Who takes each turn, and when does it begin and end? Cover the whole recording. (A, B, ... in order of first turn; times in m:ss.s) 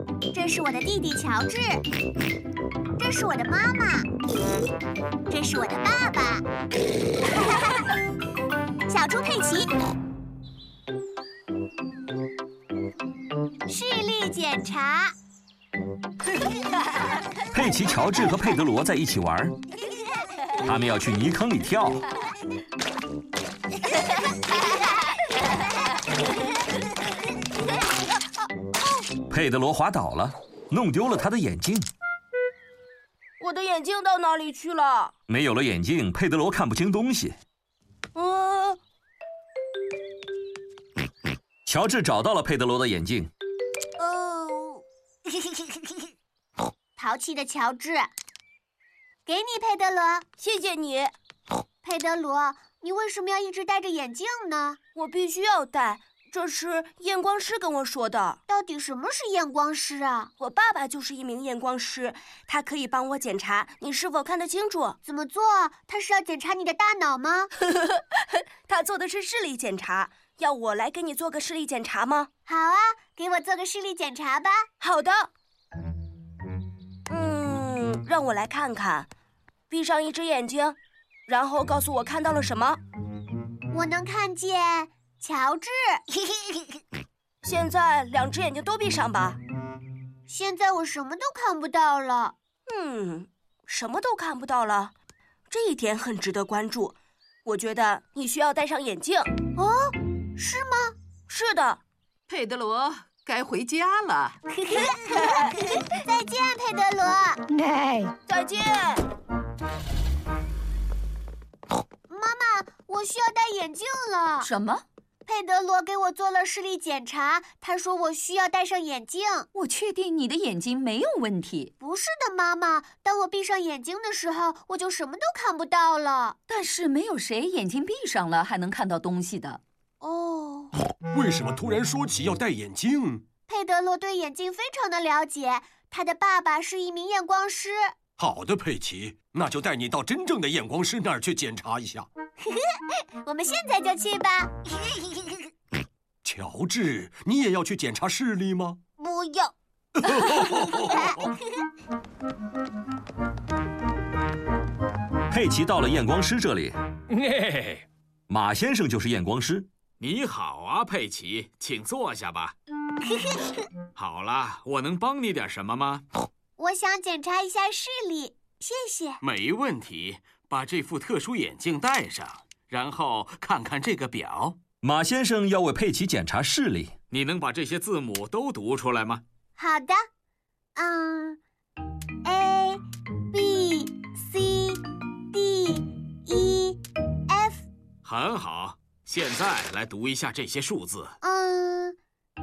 0:00.3-0:01.8 A
0:03.0-0:04.1 A
0:05.3-0:06.5 A
0:08.9-0:09.7 A
0:13.7-0:15.1 A
0:17.5-0:19.6 B
0:20.6-0:22.0 B
0:29.3-0:31.9 B
0:33.4-0:35.1 C
0:35.3-0:37.4 B
0:38.2-0:38.8 C
0:41.7-0:43.3 B
0:44.0-0:44.8 A
0:47.0-0:48.1 A
0:49.3-0:50.3 A
0:50.4-0:51.1 C
0:51.8-0:54.8 A
0:55.0-0:58.4 C
0:58.5-1:00.3 A
1:00.4-1:05.0 C
1:05.0-1:07.5 A
1:08.7-1:12.3 C
1:12.4-1:14.7 A
1:14.8-1:15.3 C
1:17.1-1:19.1 C
1:19.7-1:22.8 C
1:23.7-1:26.0 A
1:27.4-1:29.4 C
1:30.3-1:32.3 A
1:32.7-1:34.9 C
1:35.5-1:39.3 C
1:39.6-1:41.0 A
1:41.3-1:41.8 C
1:42.3-1:44.4 D
1:44.5-1:47.4 A
1:48.3-1:49.0 C
1:52.1-1:54.5 A
1:54.4-1:54.8 E
1:55.2-1:59.5 A
1:59.5-2:01.7 E
2:01.8-2:06.4 A
2:06.5-2:09.6 E
2:10.0-2:10.7 A
2:11.1-2:13.2 F
2:13.5-2:17.9 A
2:18.2-2:22.1 F
2:23.2-2:24.5 A
2:26.2-2:28.8 F
2:29.0-2:29.5 A
2:30.1-2:30.8 F
2:30.9-2:31.3 A
2:35.3-2:36.8 B
2:37.1-2:37.8 G
2:38.3-2:39.7 B
2:40.0-2:42.5 G
2:43.1-2:43.6 A
2:44.0-2:46.0 G
2:46.6-2:49.2 A
2:49.2-2:54.6 G
2:54.8-2:56.9 B
2:57.1-2:59.2 G
2:59.6-3:00.0 A
3:00.8-3:01.4 A
3:02.2-3:02.8 A
3:03.3-3:07.7 A
3:08.0-3:11.2 G
3:11.2-3:12.0 A